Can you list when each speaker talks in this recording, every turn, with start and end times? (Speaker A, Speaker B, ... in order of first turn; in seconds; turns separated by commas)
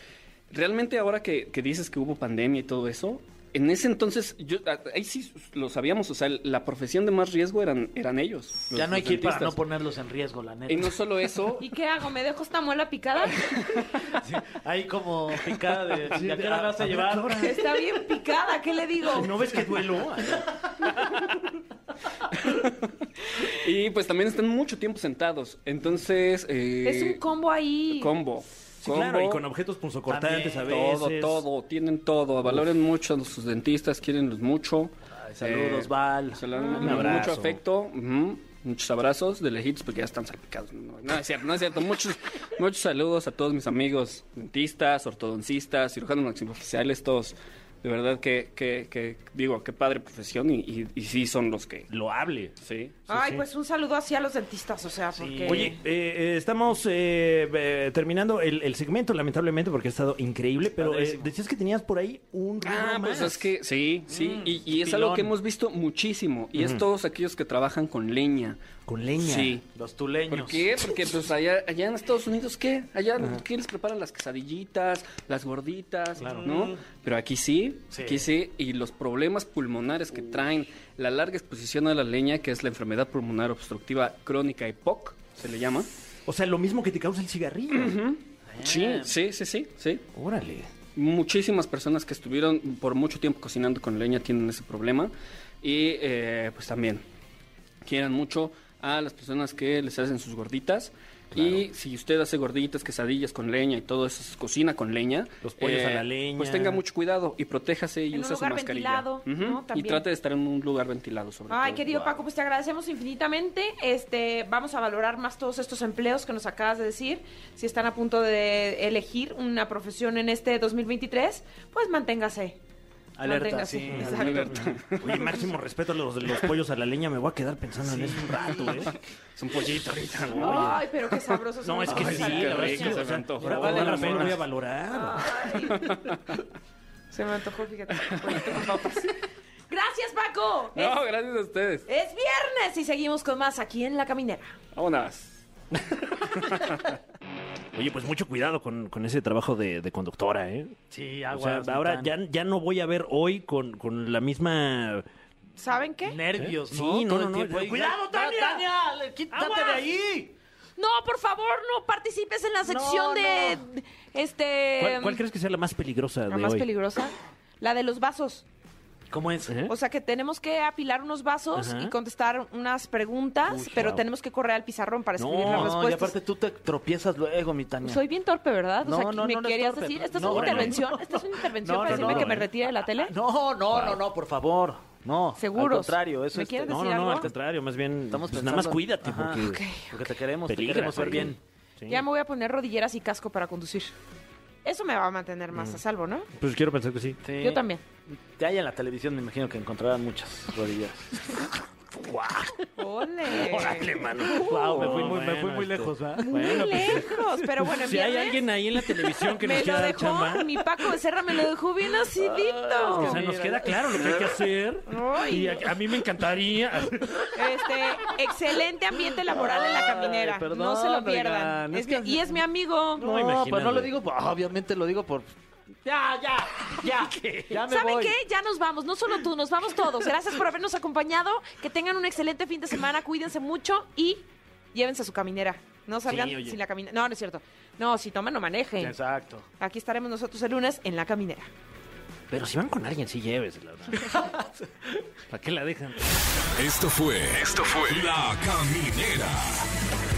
Speaker A: 0.5-9.6, Speaker B: 8.7-10.9, Speaker A: 10.7-11.7, Speaker C: 11.6-13.5, Speaker A: 13.4-13.9, Speaker B: 14.1-17.5, Speaker D: 16.1-17.8, Speaker C: 17.4-19.3, Speaker D: 19.1-20.9, Speaker A: 21.0-21.4, Speaker A: 22.3-22.9, Speaker A: 23.4-27.2, Speaker C: 26.8-28.1, Speaker A: 27.9-29.4, Speaker D: 28.8-31.4, Speaker B: 30.1-30.8, Speaker A: 30.6-51.9, Speaker B: 35.2-36.4, Speaker C: 36.5-37.0, Speaker D: 36.7-37.6, Speaker D: 51.9-52.5, Speaker A: 52.6-53.0, Speaker C: 53.1-55.8, Speaker D: 53.1-53.4, Speaker B: 55.1-55.7, Speaker D: 55.4-63.5, Speaker B: 60.8-61.3, Speaker A: 62.6-68.6, Speaker B: 64.1-65.3, Speaker D: 66.5-66.8, Speaker D: 68.8-69.6, Speaker A: 69.2-69.6, Speaker B: 69.7-70.7, Speaker A: 70.3-85.9, Speaker D: 76.2-76.5, Speaker B: 76.2-76.8, Speaker B: 77.9-78.2, Speaker D: 86.2-88.0, Speaker A: 87.7-90.0, Speaker B: 88.5-89.1, Speaker D: 90.1-90.7, Speaker A: 90.9-97.0, Speaker A: 97.8-112.2, Speaker D: 101.3-101.7, Speaker D: 105.4-106.8, Speaker C: 108.1-110.0, Speaker C: 111.5-122.6, Speaker B: 123.2-124.5, Speaker C: 123.2-124.8, Speaker D: 123.9-129.0, Speaker A: 124.0-125.3, Speaker B: 127.8-128.9, Speaker A: 128.8-131.3, Speaker D: 129.7-130.9, Speaker C: 130.3-133.8, Speaker D: 131.6-135.5, Speaker A: 131.9-134.3, Speaker B: 133.4-134.4, Speaker C: 134.9-135.9, Speaker A: 135.7-136.4, Speaker C: 137.1-139.2, Speaker A: 138.0-138.4, Speaker C: 139.7-141.0, Speaker A: 140.7-141.9, Speaker C: 141.9-144.6, Speaker A: 144.7-146.9, Speaker D: 146.2-146.8, Speaker D: 147.7-150.8, Speaker B: 150.9-152.1, Speaker D: 151.3-155.0, Speaker C: 155.6-156.2, Speaker B: 156.0-160.3, Speaker D: 156.4-158.6, Speaker D: 159.3-159.8, Speaker C: 160.8-165.2, Speaker D: 162.7-163.5, Speaker B: 162.7-163.4, Speaker D: 164.8-166.7, Speaker C: 166.3-168.4, Speaker B: 169.1-169.7, Speaker D: 169.5-169.7, Speaker C: 169.7-176.1, Speaker D: 171.5-171.9, Speaker D: 173.5-174.0, Speaker D: 175.2-175.8, Speaker B: 175.4-178.0, Speaker C: 177.8-183.1, Speaker B: 178.8-182.5, Speaker D: 180.2-180.9, Speaker D: 181.8-182.5, Speaker B: 183.0-187.3, Speaker D: 183.7-184.0, Speaker C: 185.4-187.3, Speaker D: 186.6-189.6, Speaker B: 188.1-191.4, Speaker C: 189.4-189.9, Speaker D: 190.5-192.0, Speaker C: 191.9-193.9, Speaker C: 194.6-196.3, Speaker D: 195.5-195.8, Speaker D: 196.4-197.2, Speaker B: 197.2-197.6, Speaker C: 197.4-197.8, Speaker B: 198.3-201.2, Speaker D: 202.0-202.7, Speaker C: 202.8-205.1, Speaker D: 203.3-211.0, Speaker B: 204.2-206.4, Speaker C: 206.2-213.2, Speaker B: 212.5-214.2, Speaker D: 212.8-217.6, Speaker C: 214.9-215.7, Speaker C: 217.3-223.0, Speaker B: 219.3-222.3, Speaker B: 223.0-228.1, Speaker D: 223.0-223.9, Speaker D: 226.8-227.5, Speaker C: 227.6-238.9, Speaker D: 236.1-236.6, Speaker B: 238.8-239.5, Speaker C: 239.6-241.5, Speaker D: 242.3-244.3, Speaker B: 244.1-244.5, Speaker D: 245.3-246.1, Speaker E: 246.6-249.7